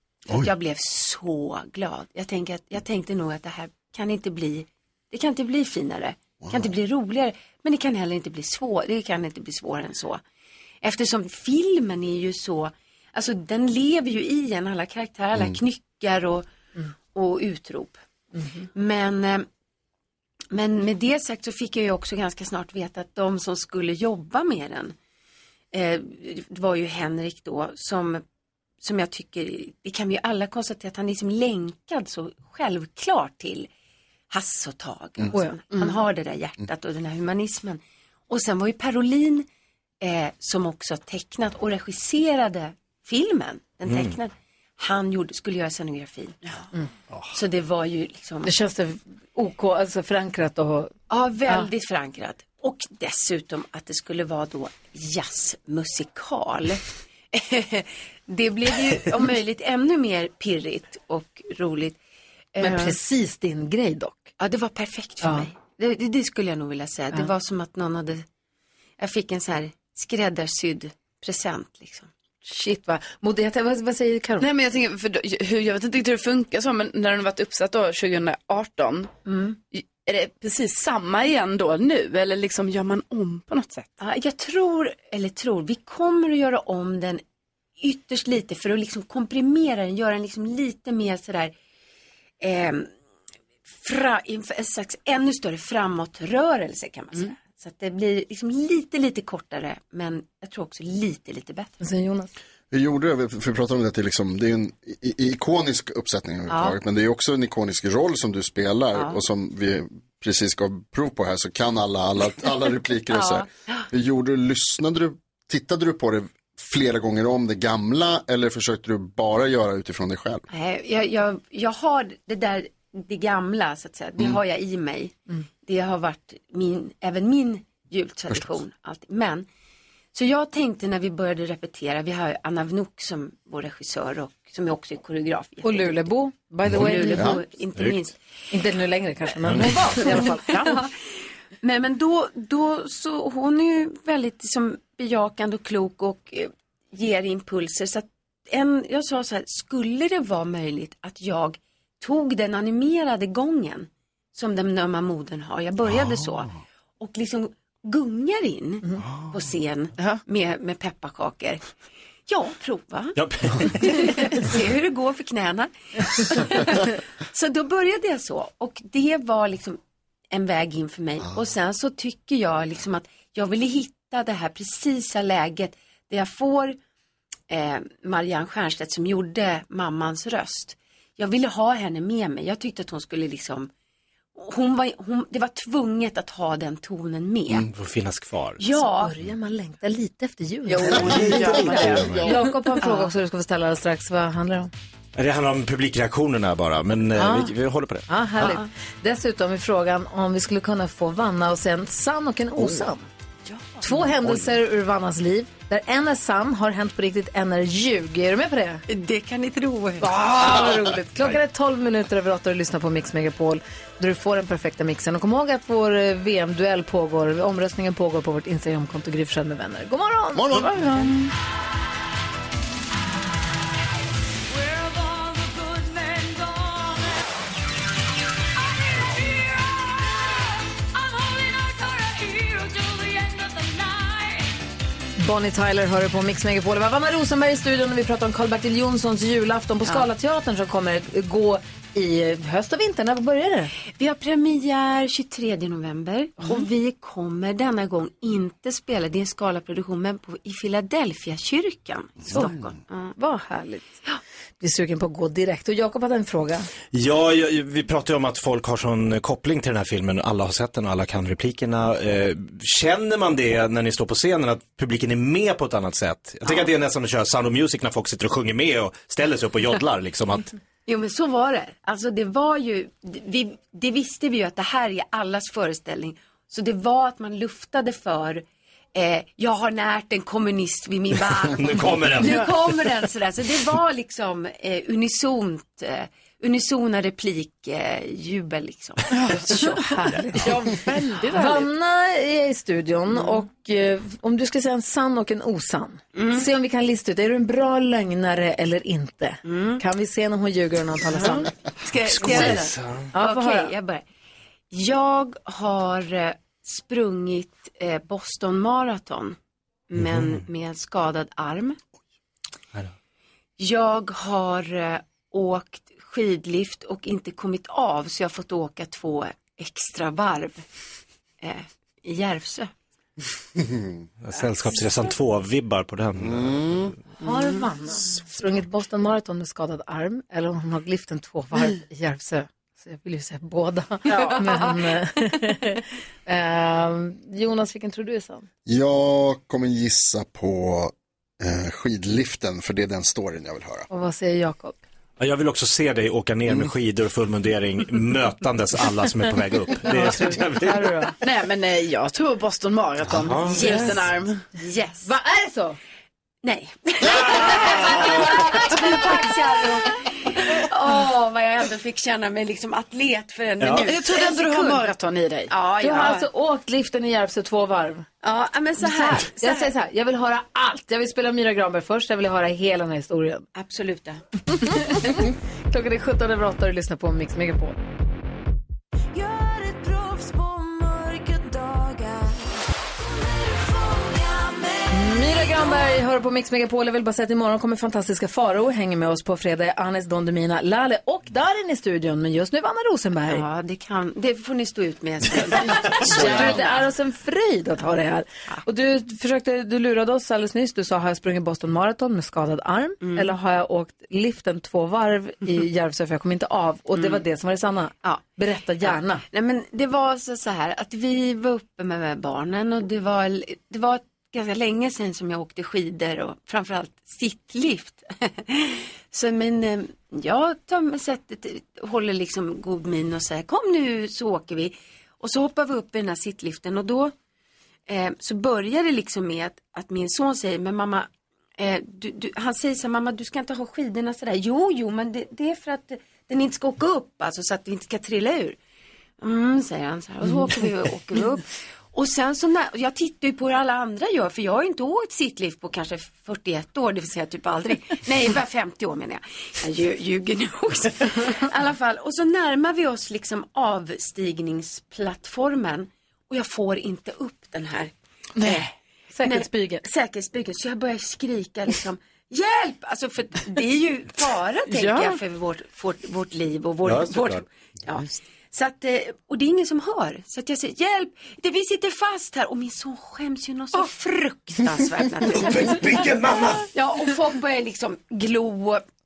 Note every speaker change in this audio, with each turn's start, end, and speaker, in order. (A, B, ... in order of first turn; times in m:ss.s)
0:00.3-0:10.2 A
0:06.4-0:06.7 B
0:10.8-0:16.5 A
0:17.1-0:18.0 A
0:18.7-0:19.5 A
0:20.5-0:24.9 A
0:25.7-0:28.2 A
0:28.8-0:33.7 A
0:34.3-0:39.4 A
0:35.3-0:35.6 C
0:35.7-0:36.0 D
0:40.0-0:46.6 A
0:43.9-0:44.2 E
0:47.3-0:48.5 A
0:48.4-0:50.9 C
0:51.1-1:02.0 A
1:02.5-1:02.9 A
1:02.6-1:04.3 C
1:04.4-1:08.2 A
1:05.2-1:05.5 C
1:09.0-1:12.1 A
1:12.4-1:14.5 C
1:14.4-1:19.1 D
1:19.2-1:19.6 A
1:19.7-1:23.9 D
1:24.0-1:27.2 A
1:27.8-1:31.5 A
1:32.4-1:32.9 A
1:33.8-1:41.8 A
1:41.8-1:42.3 C
1:42.7-2:00.4 B
1:46.5-1:46.8 A
1:48.9-1:49.2 A
1:53.1-1:53.8 A
2:00.5-2:09.5 A
2:10.1-2:16.1 A
2:15.6-2:17.4 C
2:16.7-2:18.2 A
2:17.0-2:17.4 B
2:18.5-2:20.8 C
2:19.7-2:20.9 A
2:21.6-2:41.6 A
2:40.0-2:40.2 D
2:42.3-2:49.8 A
2:43.2-2:44.6 E
2:50.3-2:56.8 A
2:57.5-3:03.7 A
3:04.3-3:07.7 A
3:07.6-3:08.6 E
3:08.6-3:09.1 A
3:08.8-3:14.7 C
3:10.7-3:12.5 D
3:10.9-3:12.3 E
3:11.8-3:12.1 B
3:12.8-3:13.1 A
3:15.2-3:18.1 E
3:17.2-3:17.5 C
3:18.1-3:23.0 C
3:23.5-3:24.1 A
3:23.8-3:28.8 C
3:28.9-3:30.7 A
3:30.0-3:41.3 C
3:40.3-3:40.8 B
3:44.5-3:47.2 F
3:48.6-3:54.5 F
3:55.2-4:03.7 C
4:04.0-4:13.1 A
4:06.4-4:06.6 C
4:12.3-4:12.5 C
4:13.2-4:13.9 C
4:14.6-4:16.7 C
4:16.9-4:30.5 E
4:30.8-4:49.9 A
4:41.4-4:42.6 E
4:49.1-4:49.5 D
4:49.5-4:50.7 C
4:50.4-4:51.6 D
4:51.2-5:01.5 C
4:56.1-4:56.4 A
4:59.4-4:59.8 A
5:01.1-5:04.0 A
5:02.1-5:03.1 E
5:02.2-5:03.7 C
5:04.7-5:09.4 A
5:09.9-5:11.8 A
5:10.0-5:10.4 E
5:13.6-5:20.6 A
5:21.4-5:22.7 A
5:24.2-5:27.0 E
5:26.3-5:26.6 B
5:27.2-5:38.4 C
5:34.1-5:34.8 A
5:38.6-5:43.9 B
5:43.9-5:44.8 C
5:45.2-5:51.0 E
5:49.9-5:51.2 C
5:51.2-5:54.4 D
5:53.1-5:53.8 E
5:53.5-5:55.1 A
5:53.6-5:54.0 C
5:55.0-5:55.8 C
5:56.4-6:04.9 A
5:57.2-5:58.3 E
5:58.0-5:59.2 C
6:03.6-6:03.9 E
6:03.8-6:05.5 D
6:05.5-6:06.3 A
6:05.8-6:08.1 C
6:08.2-6:09.7 A
6:08.8-6:13.5 C
6:13.5-6:14.2 A
6:14.5-6:17.8 C
6:14.8-6:15.2 A
6:19.1-6:26.0 F
6:24.9-6:33.4 C
6:33.3-6:36.9 A
6:35.8-6:49.2 C
6:43.0-6:43.3 A
6:46.9-6:47.2 A
6:48.8-7:07.1 A
7:07.9-7:18.6 A
7:19.2-7:38.7 A
7:38.4-7:39.8 C
7:39.2-7:56.0 A
7:44.7-7:45.2 D
7:46.8-7:47.4 E
7:55.3-7:56.7 E
7:56.7-7:58.8 A